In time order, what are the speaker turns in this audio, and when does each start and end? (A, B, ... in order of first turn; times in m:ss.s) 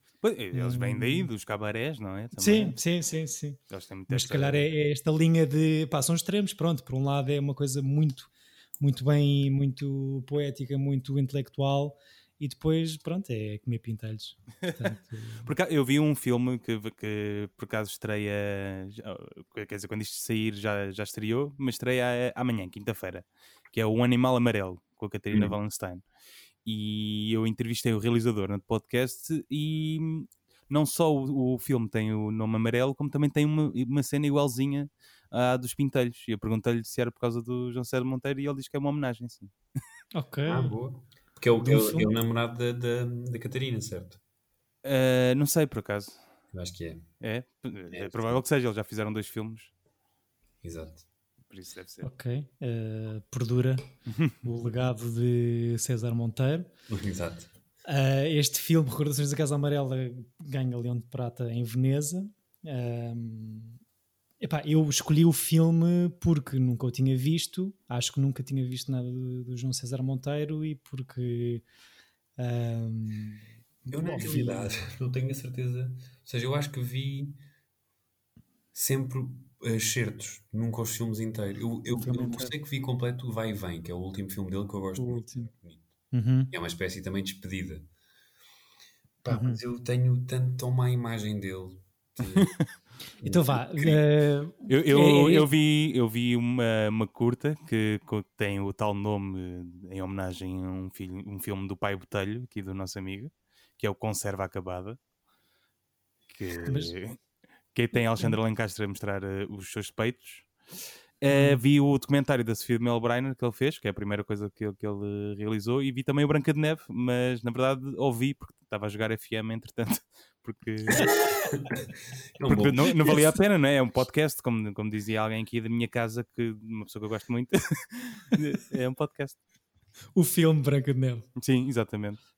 0:00.2-0:02.8 A
0:00.5-0:01.3 B
0:02.4-0:15.5 B
0:03.7-0:04.6 A
0:15.4-0:26.0 A
0:25.3-0:25.6 C
0:26.6-0:39.5 A
0:40.1-0:40.7 B
0:40.5-0:44.2 C
0:41.6-0:42.1 B
0:44.8-0:46.2 A
0:46.5-0:47.1 C
0:47.2-0:49.7 A
0:47.9-0:48.4 C
0:50.6-0:51.0 C
0:51.5-0:52.1 A
0:52.0-0:53.8 B
0:54.4-0:56.7 B
0:56.9-0:57.5 C
0:57.8-1:03.8 B
1:04.4-1:11.6 B
1:12.4-1:14.7 B
1:13.9-1:17.4 C
1:18.7-1:25.8 C
1:22.0-1:22.5 B
1:25.0-1:25.5 B
1:26.1-1:26.5 B
1:26.5-1:27.9 C
1:29.2-1:32.5 C
1:29.3-1:29.6 B
1:32.3-1:32.6 A
1:33.2-1:34.0 C
1:33.2-1:35.5 B
1:34.7-1:45.0 A
1:46.3-1:47.2 A
1:46.6-1:46.9 B
1:47.7-1:50.5 A
1:51.2-2:01.1 A
1:51.3-1:51.6 B
2:00.9-2:03.4 C
2:02.4-2:09.4 A
2:10.2-2:11.2 B
2:11.4-2:12.2 A